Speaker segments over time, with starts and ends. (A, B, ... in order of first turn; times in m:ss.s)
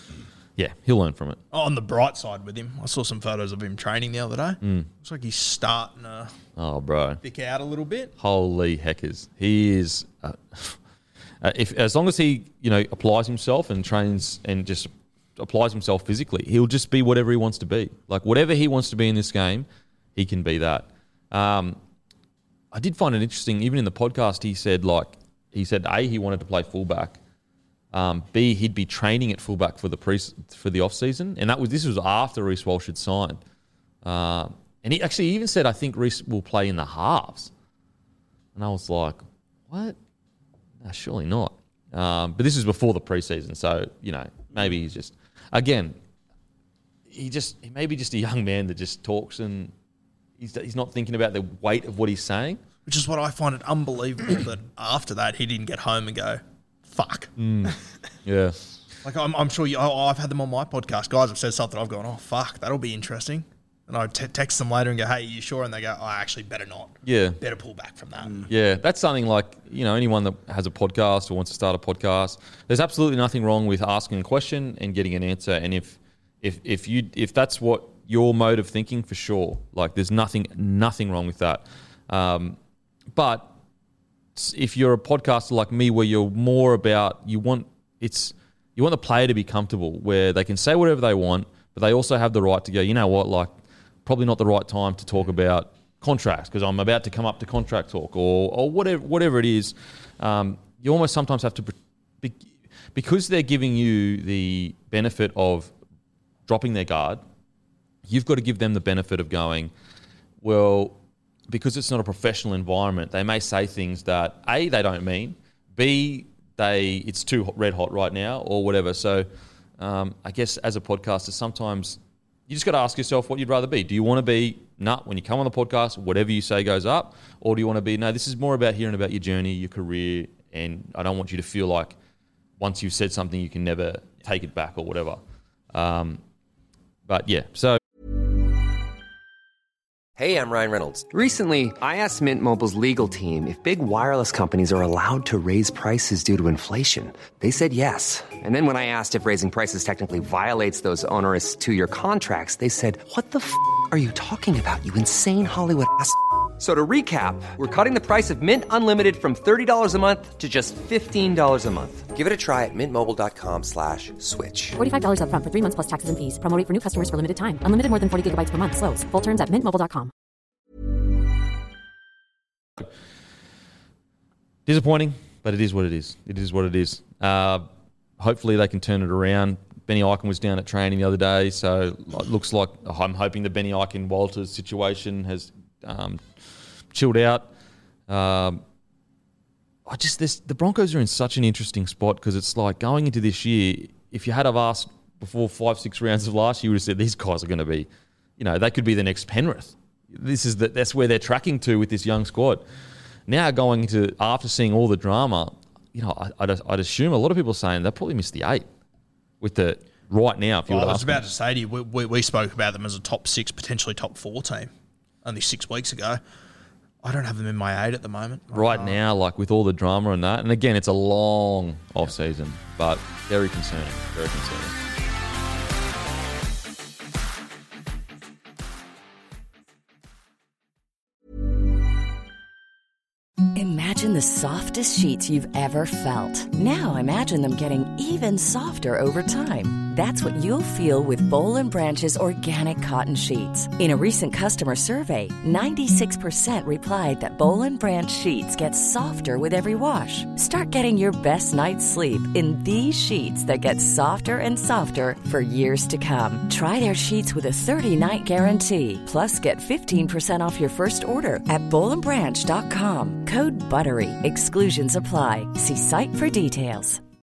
0:00.6-0:01.4 A
0:01.5-0:06.3 B
0:04.6-0:04.9 A
0:06.6-0:07.2 A
0:07.2-0:08.1 B
0:08.2-0:10.8 A
0:11.4-0:21.8 A
0:22.7-0:27.2 A
0:27.9-0:33.4 A
0:34.0-0:37.5 A
0:38.6-0:40.0 A
0:40.8-0:46.0 A
0:47.1-0:49.7 A
0:50.4-0:52.6 A
0:52.9-0:57.7 B
0:57.4-0:58.6 A
0:59.0-1:08.5 B
1:07.0-1:07.4 A
1:08.5-1:22.6 A
1:23.1-1:23.5 A
1:24.4-1:33.5 A
1:34.1-1:42.4 A
1:43.0-1:45.7 A
1:46.5-1:47.2 A
1:48.1-1:49.7 A
1:50.4-1:51.0 A
1:51.5-1:59.3 A
1:59.8-2:12.0 A
2:12.6-2:15.2 A
2:15.7-2:16.2 A
2:17.1-2:17.8 A
2:20.2-2:44.8 C
2:44.8-2:50.1 D
2:54.7-2:57.6 A
2:58.2-3:06.2 A
3:06.9-3:07.5 A
3:08.1-3:08.6 A
3:09.9-3:22.6 A
3:23.3-3:28.7 A
3:29.4-3:31.2 A
3:30.7-3:34.7 B
3:35.2-3:36.2 B
3:37.0-3:39.0 B
3:38.5-3:44.7 A
3:53.6-4:27.0 E